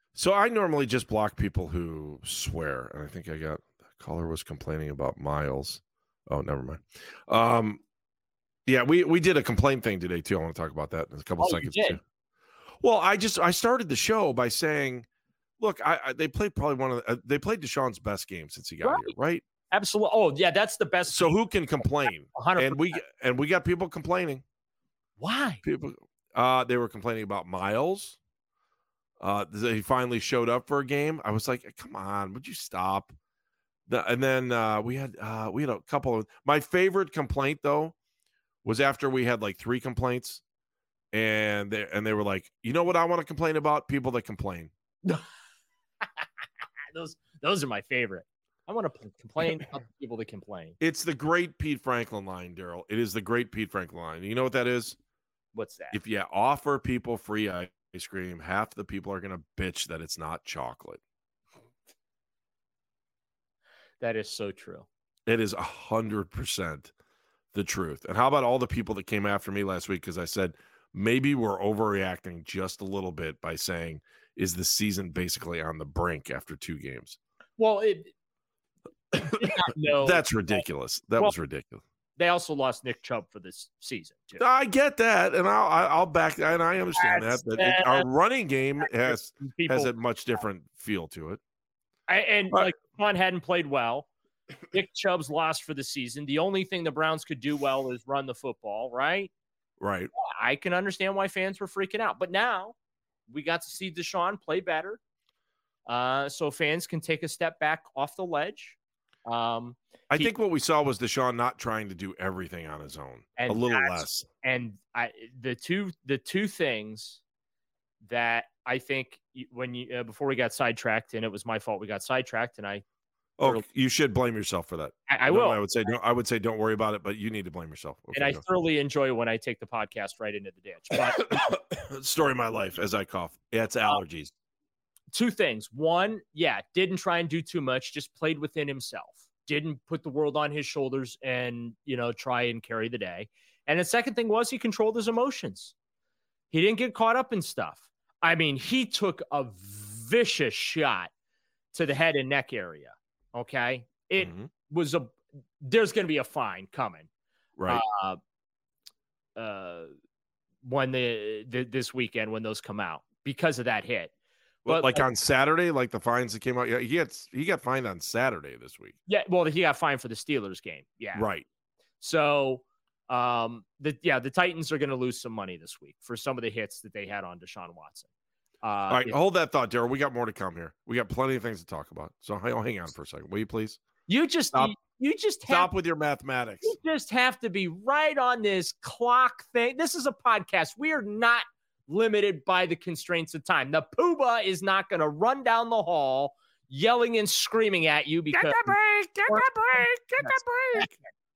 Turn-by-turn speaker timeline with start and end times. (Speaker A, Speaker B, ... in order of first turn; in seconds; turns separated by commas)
Speaker A: 0.1-7.8, Speaker A: 8.7-12.0, Speaker B: 11.4-12.0, Speaker A: 12.8-15.0, Speaker A: 15.6-19.4, Speaker B: 18.8-19.1, Speaker B: 19.7-21.4, Speaker A: 21.1-24.4, Speaker B: 22.1-23.0, Speaker B: 25.2-25.6, Speaker A: 25.6-28.2, Speaker A: 29.2-33.1, Speaker A: 33.9-37.9, Speaker A: 38.6-40.4, Speaker A: 41.1-44.7, Speaker B: 46.9-50.8, Speaker A: 50.8-55.0, Speaker B: 55.5-56.0, Speaker A: 55.9-61.0, Speaker B: 64.0-64.9, Speaker A: 65.3-66.9, Speaker A: 67.5-77.2, Speaker B: 77.6-78.1, Speaker B: 79.1-80.6, Speaker A: 79.2-81.8, Speaker B: 82.2-84.4, Speaker A: 84.4-91.4, Speaker B: 87.0-88.1, Speaker B: 88.8-89.9, Speaker B: 92.1-94.1, Speaker B: 94.7-99.3, Speaker A: 99.8-100.1, Speaker B: 100.2-102.8, Speaker B: 103.3-105.0, Speaker B: 105.9-110.3, Speaker A: 110.1-114.3, Speaker B: 113.4-117.2, Speaker B: 118.0-122.8, Speaker A: 123.4-128.4, Speaker B: 125.1-125.6, Speaker B: 128.1-131.2, Speaker A: 131.0-134.3, Speaker B: 135.1-145.7, Speaker B: 146.5-151.1, Speaker B: 151.7-157.1, Speaker A: 154.2-154.5, Speaker A: 157.6-157.8, Speaker B: 157.7-158.2, Speaker B: 159.3-159.9, Speaker B: 160.6-164.1, Speaker A: 164.6-168.9, Speaker B: 164.7-165.1, Speaker B: 169.1-171.3, Speaker A: 171.1-171.4, Speaker B: 172.0-178.1, Speaker B: 178.6-179.2, Speaker A: 178.9-183.8, Speaker B: 184.1-185.7, Speaker A: 185.4-186.8, Speaker B: 186.6-198.7, Speaker A: 198.3-200.9, Speaker B: 199.3-200.9